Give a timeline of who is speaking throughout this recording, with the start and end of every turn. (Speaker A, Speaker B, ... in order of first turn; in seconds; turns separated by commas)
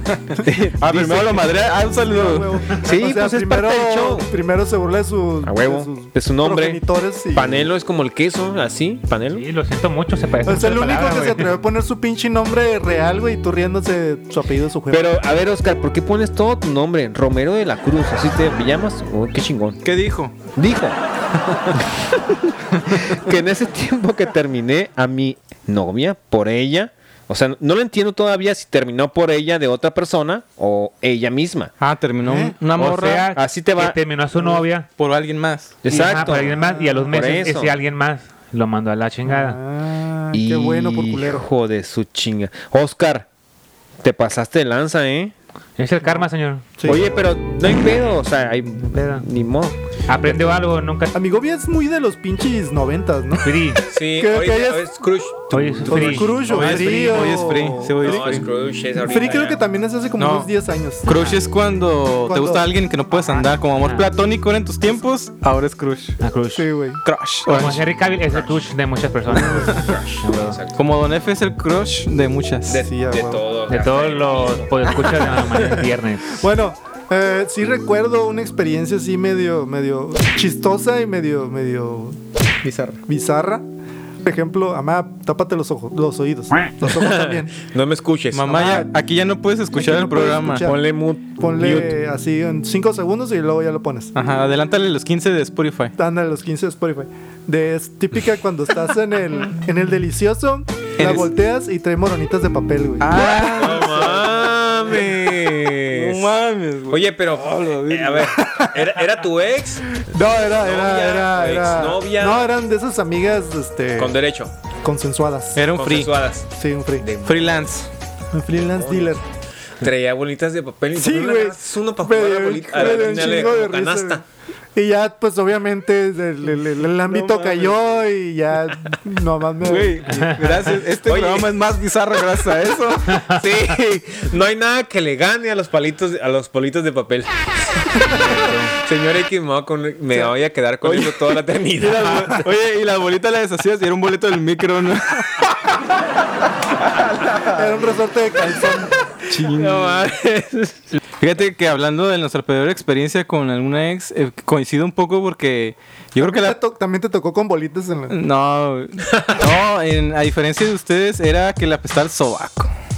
Speaker A: 0.2-2.6, Speaker B: 0.4-1.5, Speaker C: 2.0-7.7, Speaker B: 2.8-4.3, Speaker B: 5.4-6.8, Speaker B: 7.3-9.4, Speaker D: 9.3-11.5, Speaker C: 10.4-15.2, Speaker B: 14.9-19.8, Speaker A: 19.8-20.4, Speaker B: 20.5-21.0, Speaker B: 21.7-31.7, Speaker A: 31.8-33.3, Speaker C: 32.2-32.5, Speaker D: 32.7-34.9, Speaker B: 33.3-34.0, Speaker A: 34.9-35.7, Speaker B: 35.8-37.8, Speaker D: 35.9-39.6, Speaker C: 36.3-37.5, Speaker C: 39.2-41.5, Speaker B: 40.3-43.3, Speaker B: 44.0-45.3, Speaker D: 45.8-46.7, Speaker C: 46.8-47.1, Speaker B: 46.9-49.8, Speaker D: 48.9-49.2, Speaker D: 50.1-51.1, Speaker C: 51.1-54.9, Speaker D: 53.4-53.8, Speaker B: 53.9-59.6, Speaker D: 55.5-56.4, Speaker C: 55.8-58.4, Speaker A: 56.5-58.5, Speaker C: 59.0-61.2, Speaker A: 60.2-60.5, Speaker A: 61.0-66.2, Speaker D: 61.1-61.4, Speaker C: 62.2-63.5, Speaker D: 63.8-64.1, Speaker D: 66.2-66.7, Speaker C: 66.5-67.0, Speaker A: 67.0-67.8, Speaker D: 67.5-70.6, Speaker C: 69.3-69.8, Speaker B: 69.3-70.8, Speaker A: 70.7-72.8, Speaker B: 72.7-75.8, Speaker C: 72.8-73.4, Speaker D: 73.7-76.4, Speaker C: 76.4-82.2, Speaker B: 82.7-83.0, Speaker C: 83.0-83.6, Speaker C: 84.2-87.5, Speaker B: 86.8-88.8, Speaker A: 88.3-90.6, Speaker C: 88.5-88.9, Speaker C: 89.7-90.8, Speaker B: 90.6-91.9, Speaker C: 91.3-94.1, Speaker A: 94.1-95.9, Speaker C: 96.0-104.2, Speaker A: 101.0-101.3, Speaker A: 103.0-104.3, Speaker B: 103.5-106.3, Speaker A: 105.8-108.4, Speaker B: 106.9-112.5, Speaker C: 108.4-109.0, Speaker C: 110.0-114.2, Speaker B: 114.0-114.5, Speaker C: 114.8-115.7, Speaker A: 115.5-116.1, Speaker B: 115.7-116.5, Speaker C: 116.5-117.1, Speaker B: 117.0-117.6, Speaker A: 117.2-117.9, Speaker C: 118.3-119.2, Speaker B: 118.6-119.2, Speaker B: 119.8-124.2, Speaker C: 120.9-124.2, Speaker C: 124.7-130.1, Speaker A: 127.0-127.7, Speaker A: 129.6-133.3, Speaker D: 130.1-130.5, Speaker B: 130.7-131.6, Speaker B: 133.3-137.3, Speaker D: 138.2-138.8, Speaker B: 138.7-142.5, Speaker A: 140.8-145.8, Speaker A: 146.9-147.7, Speaker C: 147.5-148.9, Speaker A: 149.3-150.0, Speaker B: 149.5-151.0, Speaker A: 151.2-156.5, Speaker C: 156.2-158.2, Speaker A: 158.1-162.7